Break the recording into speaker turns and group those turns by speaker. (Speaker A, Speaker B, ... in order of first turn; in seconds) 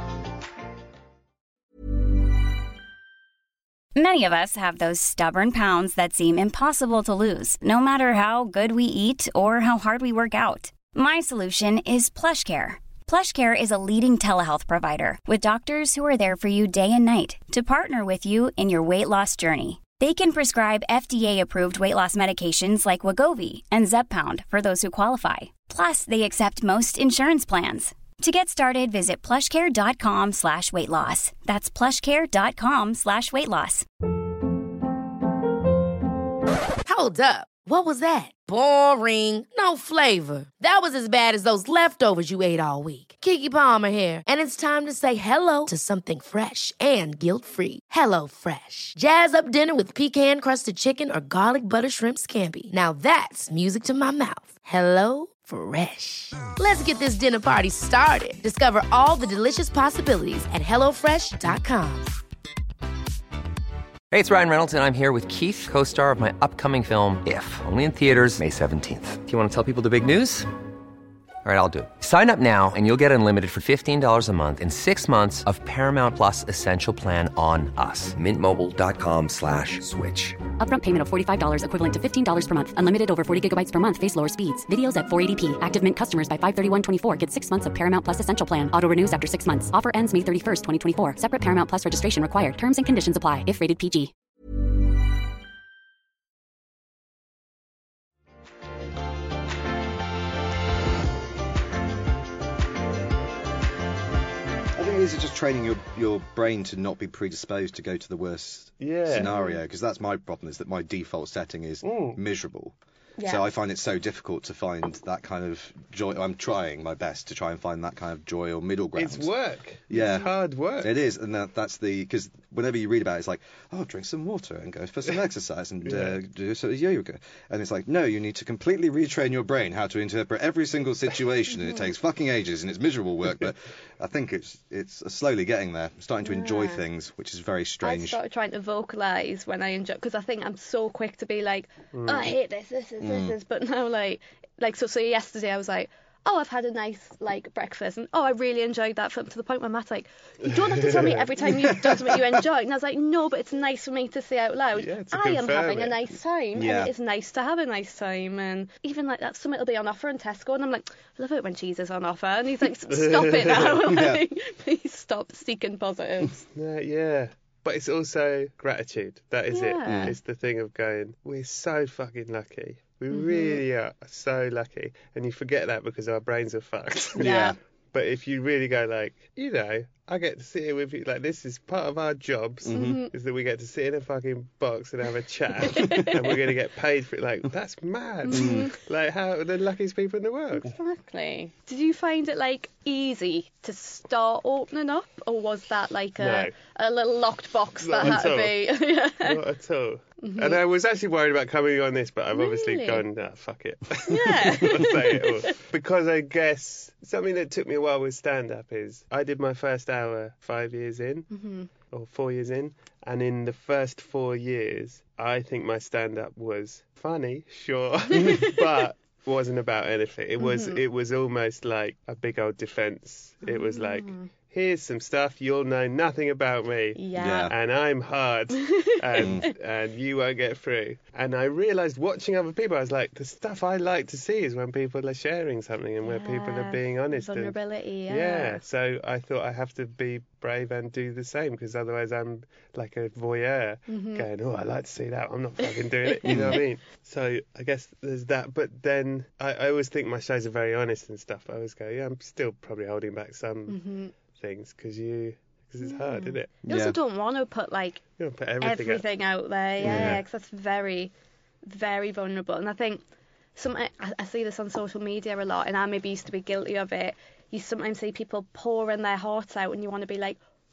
Speaker A: 3.9-33.9
Speaker B: 36.9-62.1
Speaker C: 64.1-70.5, 71.4-80.4
Speaker D: 80.6-94.1
Speaker E: 104.7-119.3, 119.9-138.2, 143.0-143.3, 156.5-156.9, 163.8-164.2, 169.8-170.1, 177.1-177.6, 182.6-183.0, 188.3-188.7, 227.1-227.5, 229.1-229.5, 246.3-246.6, 256.6-257.0, 259.8-260.2
Speaker F: 108.8-109.3, 111.8-112.2, 118.9-120.9, 125.8-126.2, 141.9-142.3, 150.4-151.8, 154.7-156.0, 162.9-163.7, 166.5-177.3, 177.9-190.7, 196.2-196.5, 197.8-237.6, 238.1-256.5, 258.2-259.0, 259.8-260.2
Speaker G: 109.2-109.6, 113.2-113.5, 136.2-136.8, 137.8-166.4, 169.5-170.1, 173.1-173.6, 177.2-177.5, 182.7-183.1, 185.7-186.1, 188.2-188.7, 190.5-199.4, 200.2-200.6, 202.3-203.0, 204.1-205.5, 211.3-211.7, 220.4-220.8, 223.4-224.3, 226.9-227.5, 228.6-229.5, 236.0-238.6, 243.9-244.3, 245.8-246.6, 253.7-254.1, 255.8-258.0, 258.6-261.1, 261.6-263.0, 263.6-270.4